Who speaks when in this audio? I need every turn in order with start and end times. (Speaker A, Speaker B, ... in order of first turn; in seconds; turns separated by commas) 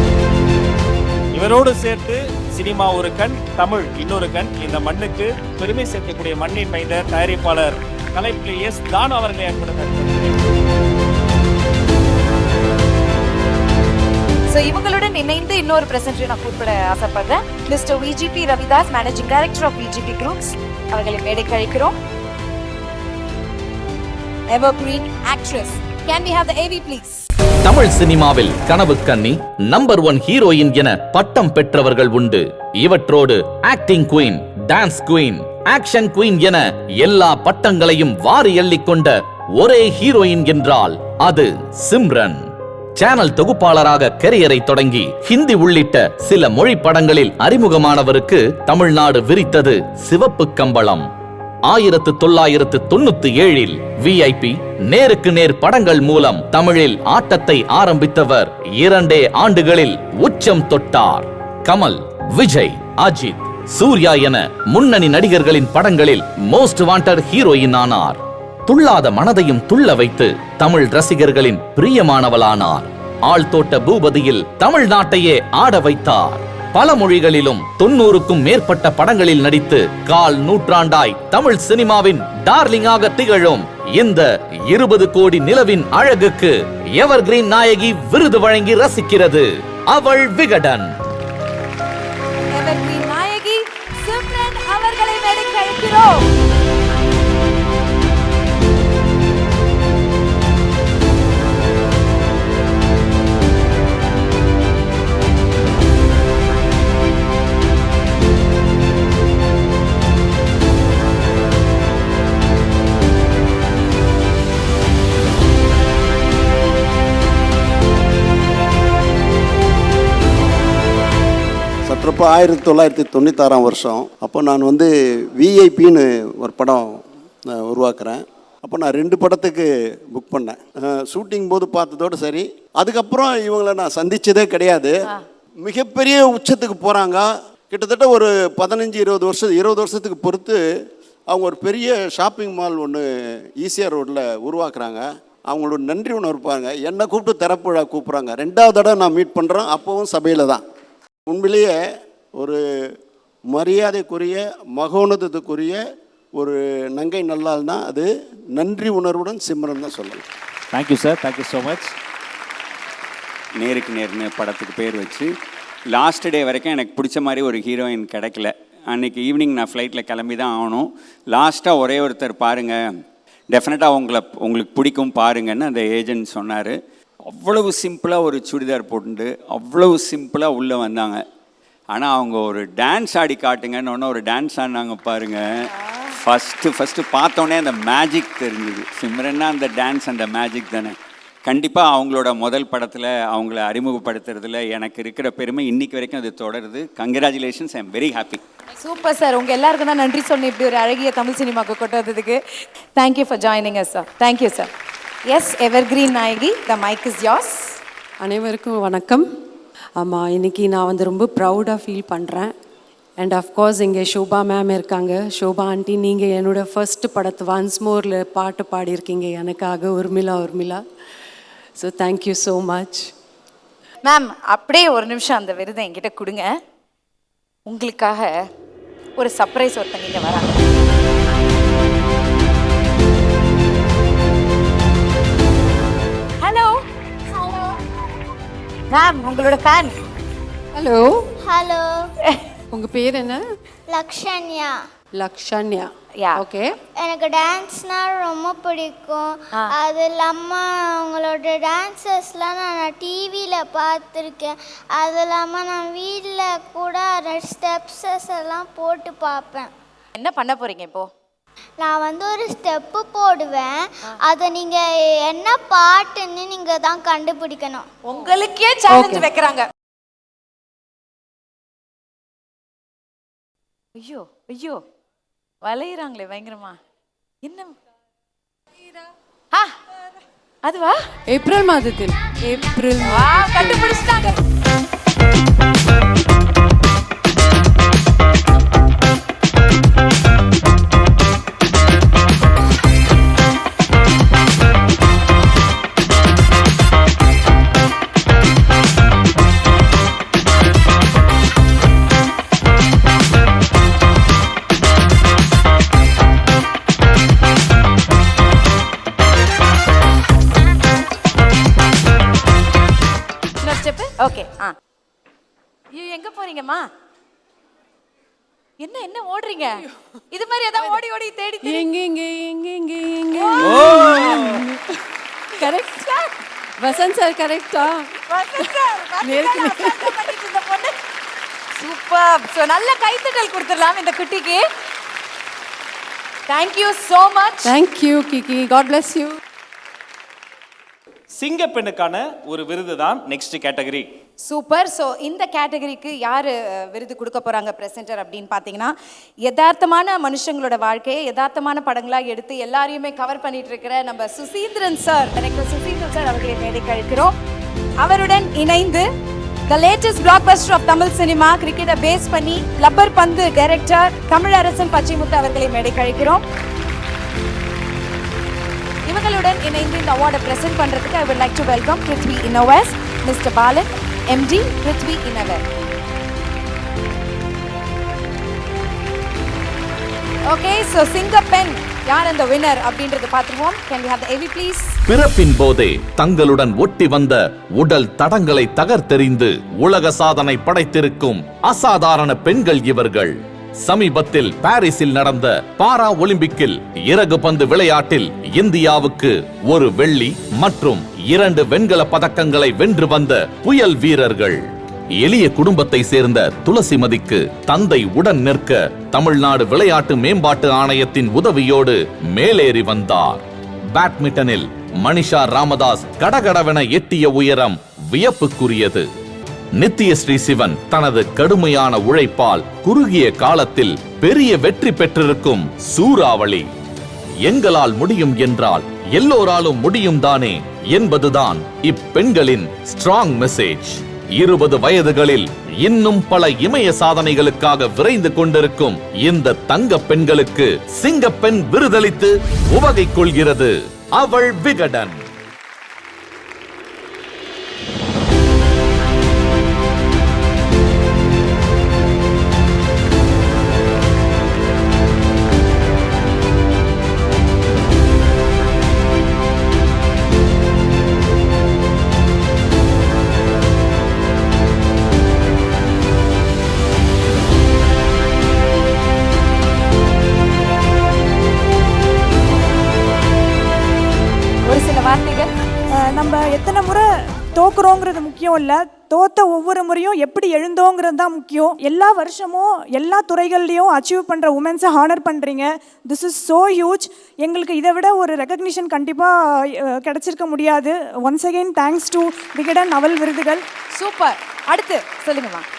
Speaker A: 1.3-10.4, Speaker B: 14.5-22.0, Speaker B: 24.5-27.3, Speaker C: 27.6-51.1, Speaker C: 51.7-90.9, Speaker B: 92.5-96.3, Speaker D: 121.9-134.9, Speaker D: 135.6-140.6, Speaker D: 141.3-143.1, Speaker D: 143.6-150.6, Speaker D: 151.3-151.8, Speaker D: 153.5-155.8, Speaker D: 156.4-160.2, Speaker A: 160.7-161.9, Speaker E: 163.6-165.3, Speaker E: 165.9-173.0, Speaker E: 173.5-181.2, Speaker E: 181.9-198.4, Speaker B: 198.8-202.4, Speaker B: 202.9-204.7, Speaker B: 205.3-207.8, Speaker F: 208.2-209.2, Speaker F: 210.0-212.6, Speaker F: 213.2-220.8, Speaker F: 221.8-223.1, Speaker B: 224.1-226.5, Speaker B: 227.7-228.3, Speaker B: 229.2-230.6, Speaker B: 236.4-236.8, Speaker B: 238.9-240.0, Speaker F: 240.8-241.2, Speaker G: 241.4-241.9, Speaker F: 242.7-243.4, Speaker G: 243.9-244.7, Speaker F: 245.2-246.7, Speaker B: 246.2-246.4, Speaker G: 247.0-259.7, Speaker B: 260.2-261.1, Speaker G: 261.8-267.9, Speaker B: 268.1-269.7, Speaker F: 268.9-269.3, Speaker B: 274.0-274.8, Speaker B: 275.6-276.8, Speaker B: 277.4-277.8, Speaker B: 280.6-281.0, Speaker F: 281.3-283.9, Speaker B: 283.0-284.4, Speaker B: 313.6-314.7, Speaker B: 315.9-316.9, Speaker B: 318.8-319.8, Speaker B: 320.3-321.9, Speaker F: 321.6-324.8, Speaker B: 323.3-324.2, Speaker A: 323.6-324.6, Speaker B: 325.6-326.3, Speaker F: 326.8-328.1, Speaker B: 328.2-330.9, Speaker F: 329.2-330.2, Speaker B: 331.8-334.6, Speaker B: 336.5-337.7, Speaker F: 337.6-339.4, Speaker A: 341.4-344.1, Speaker B: 344.5-357.4, Speaker B: 358.0-359.1, Speaker B: 359.7-366.4, Speaker B: 369.1-375.6, Speaker B: 380.5-384.9, Speaker C: 385.1-404.6, Speaker C: 405.2-419.1, Speaker C: 419.8-426.7, Speaker C: 427.4-445.2, Speaker B: 474.6-475.5, Speaker H: 476.0-477.1, Speaker H: 477.6-493.6, Speaker B: 494.0-495.7